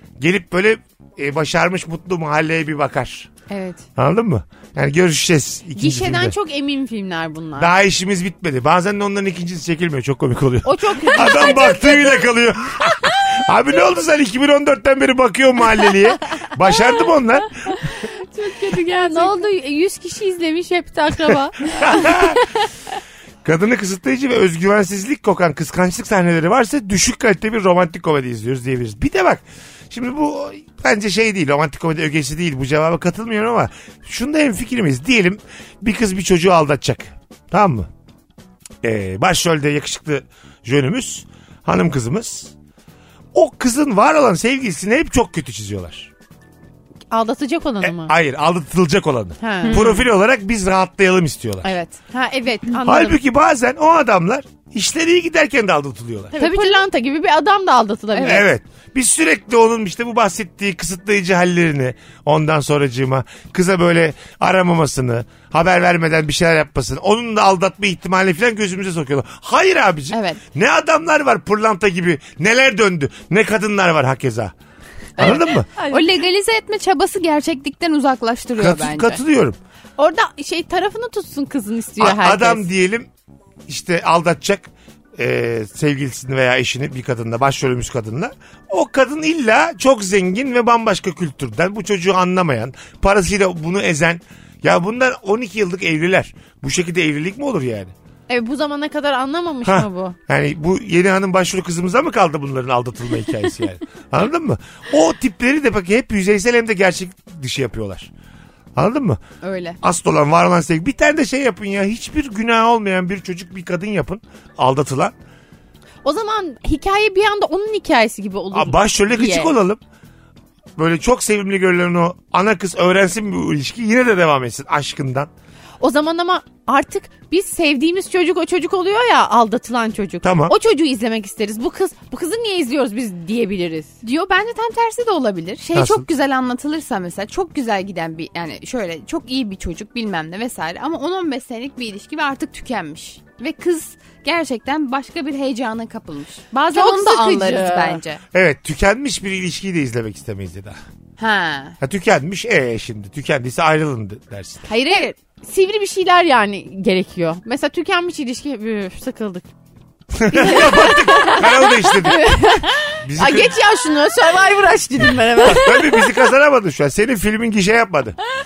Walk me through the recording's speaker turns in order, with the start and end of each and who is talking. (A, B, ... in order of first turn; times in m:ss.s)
0:00.2-0:03.3 A
0:03.5-0:03.8 B
0:04.0-0:06.3 A
0:05.8-0:07.7 C
0:07.6-0:17.8 A
0:10.6-0:12.3 C
0:17.9-0:19.4 B
0:18.7-0:22.4 C
0:21.6-0:22.4 A
0:23.4-0:37.9 A
0:38.8-0:42.5 A
0:43.3-0:46.1 A
0:47.1-0:48.1 C
0:47.8-0:51.8 A
0:49.4-0:49.8 C
0:49.6-0:50.0 B
0:51.6-0:51.9 B
0:52.0-0:53.2 C
0:52.8-0:56.4 A
0:56.3-0:58.5 C
0:56.4-0:56.8 B
0:58.1-0:58.4 B
0:58.2-1:14.5 A
1:10.1-1:10.4 B
1:15.2-1:15.7 A
1:15.2-1:19.2 B
1:15.8-1:16.1 C
1:18.6-1:19.6 A
1:20.0-1:22.6 C
1:22.0-1:23.1 A
1:23.7-1:37.9 A
1:38.3-1:40.2 C
1:39.6-1:48.1 A
1:48.7-1:49.2 A
1:49.4-1:49.8 B
1:49.8-1:55.1 A
1:56.0-1:59.5 C
1:58.5-1:59.8 A
2:00.8-2:05.3 A
2:05.8-2:13.9 C
2:10.2-2:10.5 A
2:14.0-2:28.2 B
2:15.7-2:16.0 A
2:26.5-2:28.0 C
2:28.3-2:30.8 A
2:31.2-2:31.8 B
2:31.8-2:34.6 A
2:34.7-2:35.1 B
2:34.9-2:39.5 C
2:40.1-2:42.2 A
2:40.3-2:46.0 C
2:40.4-2:42.6 B
2:43.0-2:43.5 A
2:45.4-2:48.2 A